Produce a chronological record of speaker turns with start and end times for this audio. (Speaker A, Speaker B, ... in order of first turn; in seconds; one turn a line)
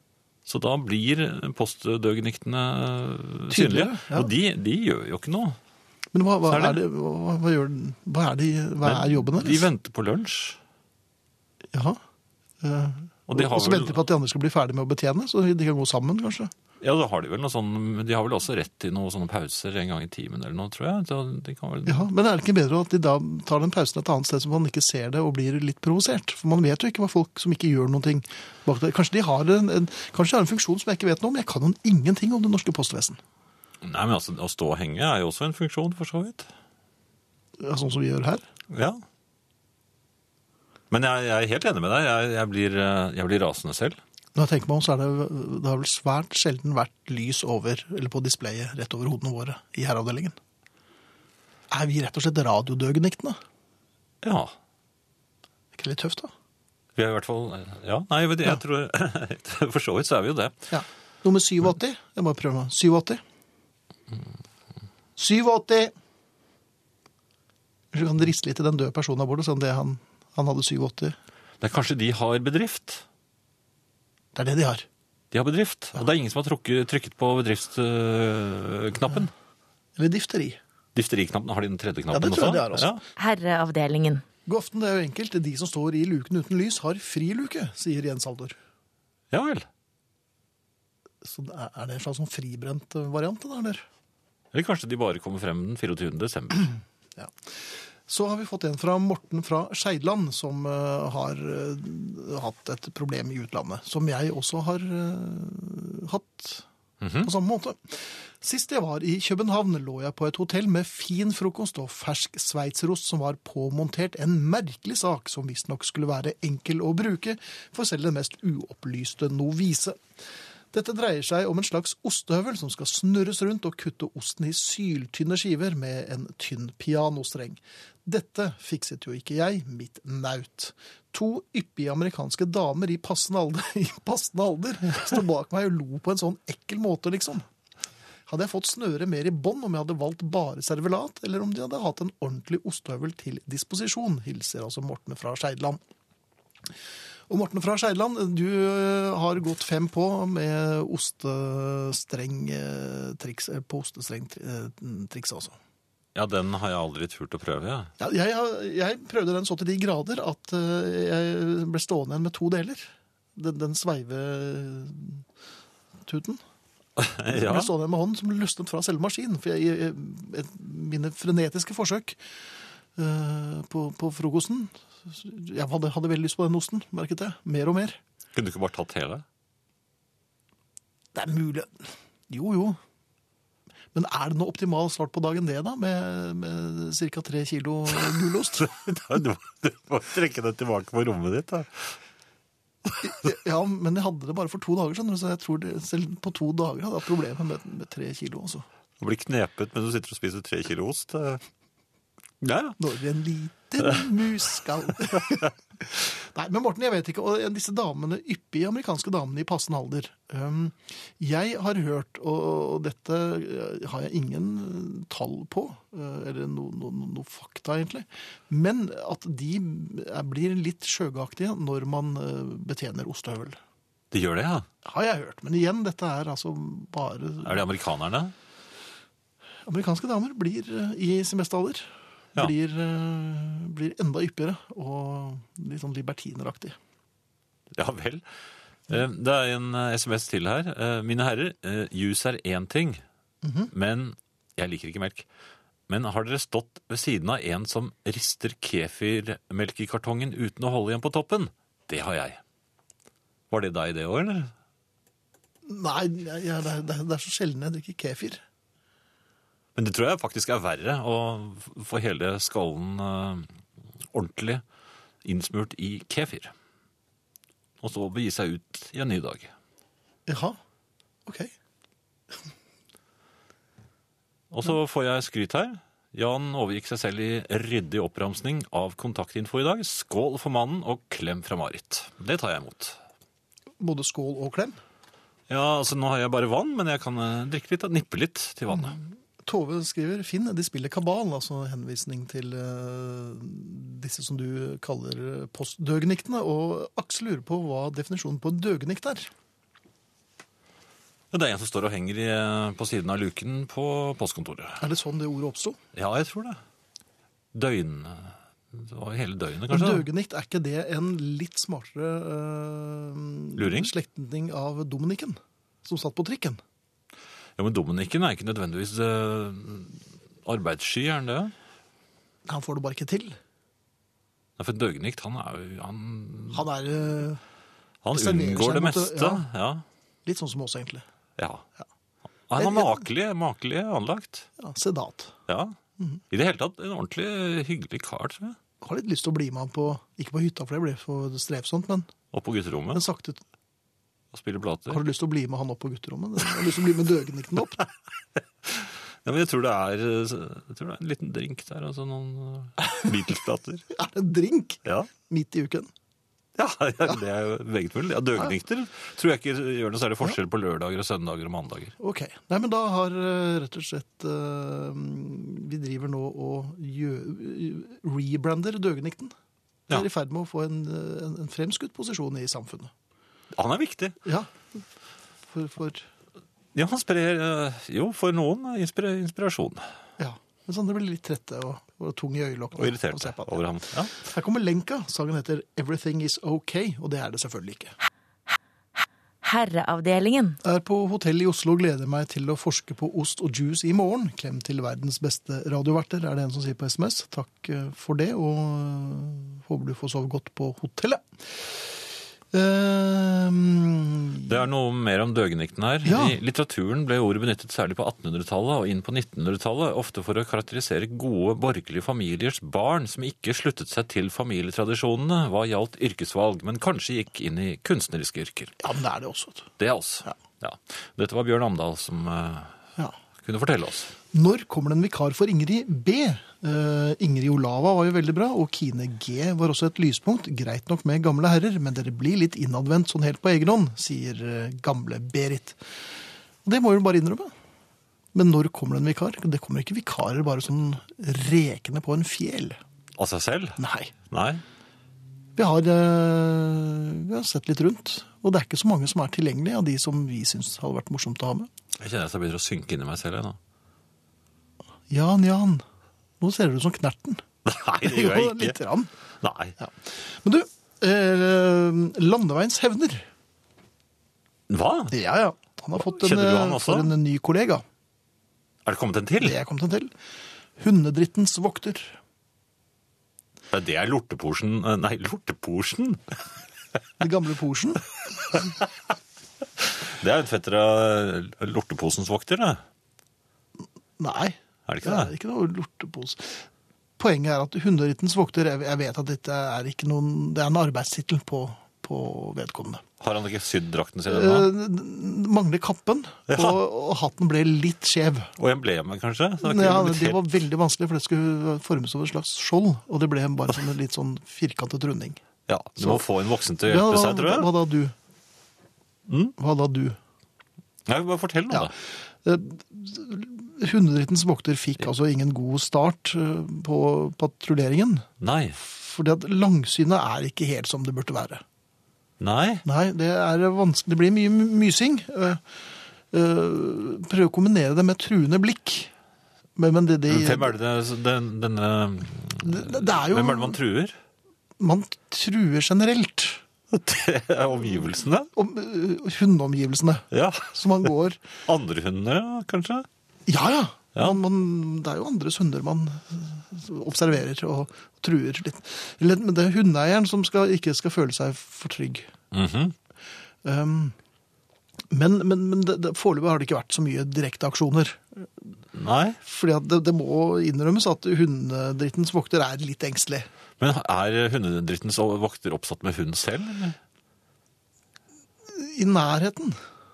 Speaker A: 0.5-5.6
Speaker B: 3.5-4.3
Speaker B: 6.1-9.7
Speaker A: 6.5-6.8
Speaker A: 8.8-10.6
Speaker B: 11.7-12.0
Speaker B: 12.6-16.5
Speaker A: 13.3-14.0
Speaker A: 16.8-22.1
Speaker B: 21.9-33.2
Speaker A: 33.8-36.5
Speaker B: 37.6-38.4
Speaker A: 38.7-39.0
Speaker A: 40.9-44.0
Speaker B: 44.4-50.4
Speaker B: 51.7-53.4
Speaker A: 54.2-54.5
Speaker B: 55.7-56.3
Speaker A: 57.0-60.5
Speaker B: 60.7-63.2
Speaker B: 65.2-65.9
Speaker B: 67.9-71.2
Speaker A: 71.6-73.0
Speaker B: 74.3-74.9
Speaker A: 75.3-79.3
Speaker B: 80.0-80.6
Speaker A: 80.9-83.0
Speaker B: 82.1-83.0
Speaker C: 83.2-84.2
Speaker B: 84.5-88.5
Speaker A: 89.3-89.7
Speaker B: 91.2-93.8
Speaker A: 94.5-96.8
Speaker B: 98.1-106.6
Speaker A: 107.0-107.3
Speaker B: 107.2-120.0
Speaker B: 120.7-137.5
Speaker B: 138.3-145.8
Speaker B: 147.3-155.6
Speaker A: 156.1-157.9
Speaker B: 158.0-165.2
Speaker B: 166.0-166.4
Speaker A: 167.0-167.7
Speaker B: 167.3-172.2
Speaker B: 172.9-178.0
Speaker A: 178.3-179.2
Speaker B: 181.1-182.8
Speaker B: 183.9-188.7
Speaker A: 188.6-191.9
Speaker B: 193.0-198.6
Speaker A: 199.0-201.4
Speaker A: 202.4-202.8
Speaker B: 202.8-223.6
Speaker A: 224.1-224.7
Speaker B: 224.8-227.6
Speaker A: 227.4-228.3
Speaker B: 229.7-236.8
Speaker A: 237.7-238.2
Speaker A: 238.9-243.0
Speaker B: 243.4-243.7
Speaker A: 243.7-245.2
Speaker A: 245.9-252.4
Speaker A: 253.5-254.5
Speaker B: 255.7-258.4
Speaker A: 259.8-263.5
Speaker A: 264.1-264.6
Speaker A: 265.2-266.5
Speaker A: 267.8-269.5
Speaker B: 270.3-270.6
Speaker B: 271.2-271.5
Speaker A: 274.5-283.0
Speaker B: 283.8-284.8
Speaker A: 285.5-289.0
Speaker B: 288.7-299.3
Speaker A: 301.3-304.8
Speaker B: 304.8-305.8
Speaker A: 305.9-306.6
Speaker A: 307.5-310.1
Speaker B: 309.7-316.6
Speaker A: 313.6-313.9
Speaker A: 317.6-321.5
Speaker B: 322.5-323.4
Speaker A: 324.6-326.6
Speaker B: 326.5-327.4
Speaker A: 328.0-329.9
Speaker B: 328.1-329.4
Speaker B: 330.2-331.0
Speaker A: 331.4-331.6
Speaker A: 332.5-334.5
Speaker B: 332.6-333.0
Speaker B: 334.6-335.4
Speaker A: 335.5-335.8
Speaker A: 336.3-338.6
Speaker B: 338.8-342.1
Speaker A: 342.3-343.0
Speaker B: 342.9-343.4
Speaker A: 344.3-345.0
Speaker B: 344.9-347.8
Speaker A: 348.6-353.9
Speaker B: 353.9-355.9
Speaker A: 354.9-355.1
Speaker A: 356.6-361.9
Speaker B: 362.0-369.3
Speaker B: 369.9-372.9
Speaker A: 373.5-374.2
Speaker B: 374.2-374.5
Speaker B: 375.5-376.0
Speaker A: 376.7-379.9
Speaker B: 380.2-387.9
Speaker A: 382.8-384.1
Speaker C: 389.4-390.6
Speaker B: 390.6-402.0
Speaker B: 402.5-404.5
Speaker A: 404.5-418.7
Speaker B: 406.0-406.4
Speaker B: 418.8-419.7
Speaker A: 419.8-422.7
Speaker A: 423.4-424.1
Speaker B: 424.3-435.8
Speaker B: 436.6-437.5
Speaker B: 438.3-442.8
Speaker A: 443.2-443.8
Speaker B: 443.8-444.1
Speaker A: 444.3-444.6
Speaker B: 445.6-451.7
Speaker A: 452.0-453.6
Speaker B: 455.1-455.8
Speaker B: 456.4-457.4
Speaker A: 457.6-458.8
Speaker B: 458.0-459.1
Speaker A: 459.4-459.8
Speaker B: 459.8-463.2
Speaker A: 464.7-465.1
Speaker B: 465.1-467.8
Speaker A: 466.0-467.1
Speaker A: 468.9-469.6
Speaker B: 469.4-470.1
Speaker B: 470.8-472.2
Speaker A: 473.7-476.4
Speaker B: 477.2-478.0
Speaker A: 479.8-482.8
Speaker B: 484.2-493.0
Speaker A: 484.9-485.3
Speaker A: 493.2-494.7
Speaker B: 494.3-498.5
Speaker A: 496.5-496.8
Speaker A: 498.6-500.4
Speaker B: 499.6-505.4
Speaker A: 505.7-507.7
Speaker B: 506.8-508.1
Speaker A: 509.3-509.6
Speaker B: 509.6-510.2
Speaker A: 511.1-511.9
Speaker B: 512.4-518.3
Speaker A: 518.4-518.8
Speaker B: 518.8-521.6
Speaker A: 522.4-522.8
Speaker B: 522.9-525.6
Speaker B: 526.3-529.1
Speaker B: 529.8-530.7
Speaker A: 530.3-534.1
Speaker B: 532.6-533.8
Speaker B: 534.8-536.6
Speaker A: 536.9-538.5
Speaker B: 538.5-541.4
Speaker A: 540.3-541.1
Speaker A: 541.6-543.1
Speaker B: 543.5-552.3
Speaker A: 552.5-552.9
Speaker B: 553.6-554.1
Speaker B: 555.1-558.5
Speaker A: 558.9-559.4
Speaker B: 559.4-563.5
Speaker A: 563.8-567.0
Speaker B: 568.7-569.8